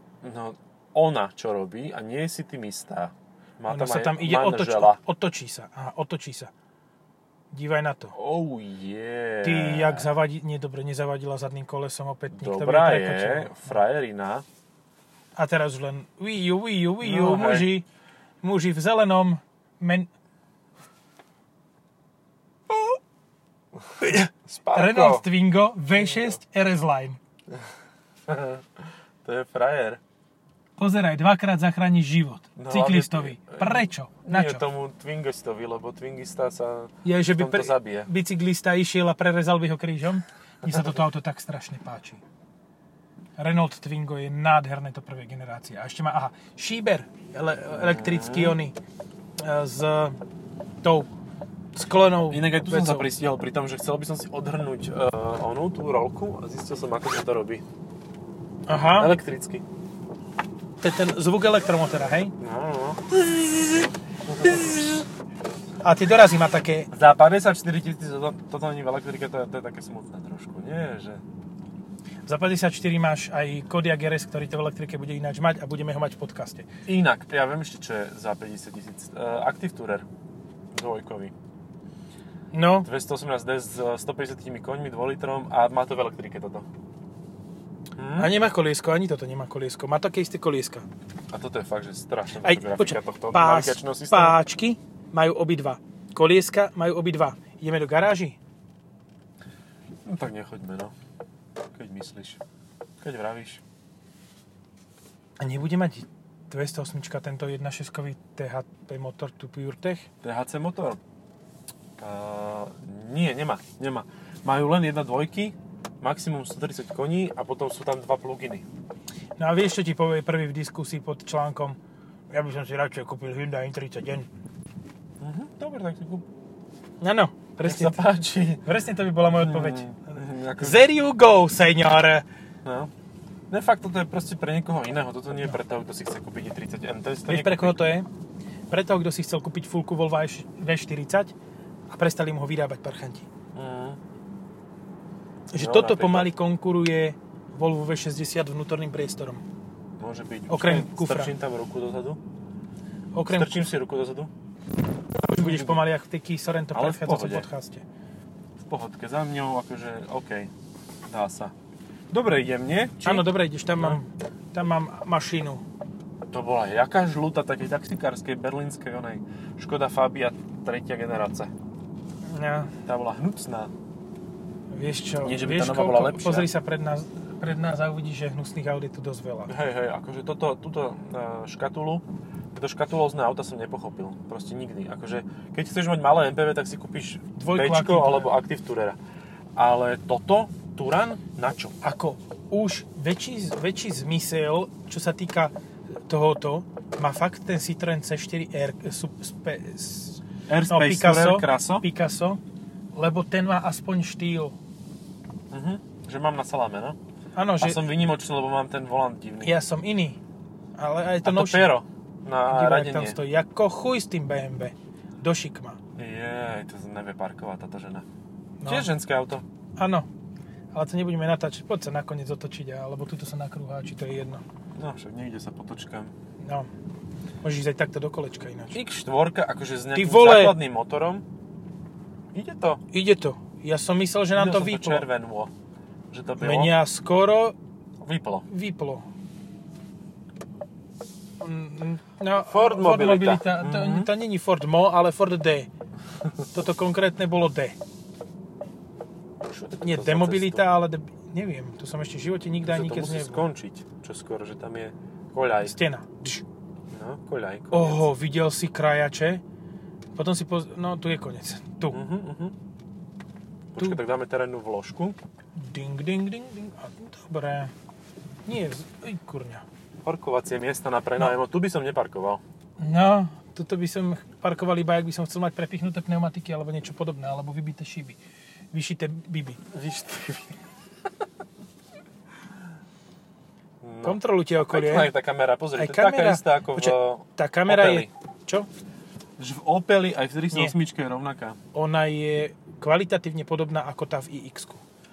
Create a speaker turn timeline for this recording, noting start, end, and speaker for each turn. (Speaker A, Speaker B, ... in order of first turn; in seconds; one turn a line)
Speaker A: 0.2-5.0
Speaker B: 3.7-6.5
Speaker B: 7.5-8.2
Speaker A: 8.1-10.1
Speaker B: 9.4-13.8
Speaker A: 12.3-14.4
Speaker B: 15.4-17.9
Speaker A: 17.0-17.7
Speaker B: 18.4-20.1
Speaker B: 24.0-27.2
Speaker A: 24.5-25.3
Speaker A: 26.0-26.4
Speaker A: 28.3-30.0
Speaker B: 30.8-34.6
Speaker A: 32.6-38.1
Speaker B: 37.0-42.2
Speaker B: 43.4-48.8
Speaker A: 47.7-48.6
Speaker B: 49.4-50.2
Speaker B: 50.8-51.1
Speaker B: 51.8-53.1
Speaker A: 52.3-57.6
Speaker B: 58.7-59.2
Speaker A: 58.7-59.6
Speaker B: 60.8-62.4
Speaker A: 62.4-63.1
Speaker A: 64.3-64.8
Speaker B: 65.8-66.9
Speaker A: 66.9-71.2
Speaker B: 72.3-76.7
Speaker A: 76.9-80.1
Speaker A: 80.7-81.3
Speaker B: 82.5-82.9
Speaker A: 82.8-86.7
Speaker A: 88.0-88.3
Speaker B: 88.2-90.9
Speaker A: 91.3-94.4
Speaker B: 92.4-98.4
Speaker A: 100.0-100.9
Speaker A: 101.8-102.4
Speaker A: 103.0-103.6
Speaker B: 105.4-110.1
Speaker A: 110.2-111.0
Speaker A: 112.0-118.7
Speaker B: 119.4-121.8
Speaker B: 122.3-124.3
Speaker A: 125.2-126.3
Speaker B: 127.0-128.0
Speaker A: 127.6-128.6
Speaker B: 128.6-129.9
Speaker A: 129.4-130.9
Speaker B: 130.6-132.3
Speaker A: 132.6-132.9
Speaker A: 133.5-137.8
Speaker B: 137.3-138.1
Speaker B: 138.7-141.3
Speaker B: 141.9-143.3
Speaker A: 143.5-144.0
Speaker B: 145.5-149.4
Speaker A: 145.5-146.3
Speaker A: 150.0-152.2
Speaker B: 150.5-151.3
Speaker B: 153.1-153.7
Speaker A: 153.3-154.3
Speaker B: 155.2-157.8
Speaker A: 155.3-155.8
Speaker A: 156.7-157.5
Speaker A: 158.6-160.5
Speaker A: 161.1-161.5
Speaker A: 162.1-164.0
Speaker B: 163.0-165.6
Speaker A: 166.3-171.5
Speaker B: 172.3-172.7
Speaker A: 172.9-173.7
Speaker B: 174.7-179.5
Speaker A: 175.2-176.5
Speaker A: 179.5-189.0
Speaker B: 187.4-188.3
Speaker A: 189.6-191.8
Speaker B: 191.8-202.4
Speaker A: 200.5-201.8
Speaker B: 202.9-204.6
Speaker A: 205.5-207.0
Speaker B: 207.3-207.8
Speaker A: 207.6-209.6
Speaker B: 209.4-210.2
Speaker B: 210.8-211.7
Speaker A: 211.2-213.2
Speaker B: 212.5-215.8
Speaker A: 216.0-218.1
Speaker B: 218.6-218.9
Speaker A: 218.7-219.4
Speaker B: 219.8-220.1
Speaker B: 220.7-224.4
Speaker A: 224.8-226.1
Speaker B: 226.4-226.7
Speaker B: 227.4-228.8
Speaker A: 228.7-231.2
Speaker B: 229.9-230.6
Speaker A: 232.3-232.8
Speaker B: 232.9-235.1
Speaker A: 234.3-235.5
Speaker A: 236.1-236.8
Speaker B: 236.4-237.6
Speaker A: 238.0-238.5
Speaker B: 238.5-239.1
Speaker B: 241.4-245.7
Speaker A: 242.4-244.1
Speaker B: 246.5-247.8
Speaker A: 249.5-250.7
Speaker B: 249.8-253.5
Speaker A: 252.6-255.8
Speaker B: 255.6-256.4
Speaker A: 256.9-258.1
Speaker B: 257.7-259.4
Speaker B: 260.1-262.0
Speaker A: 261.9-262.6
Speaker A: 263.7-265.2
Speaker B: 265.6-267.7
Speaker B: 268.5-269.6
Speaker A: 270.0-272.4
Speaker B: 272.8-278.2
Speaker B: 278.7-279.6
Speaker A: 279.7-280.6
Speaker A: 283.8-288.1
Speaker B: 284.0-285.1
Speaker B: 285.8-288.7
Speaker A: 289.4-291.6
Speaker B: 291.7-294.8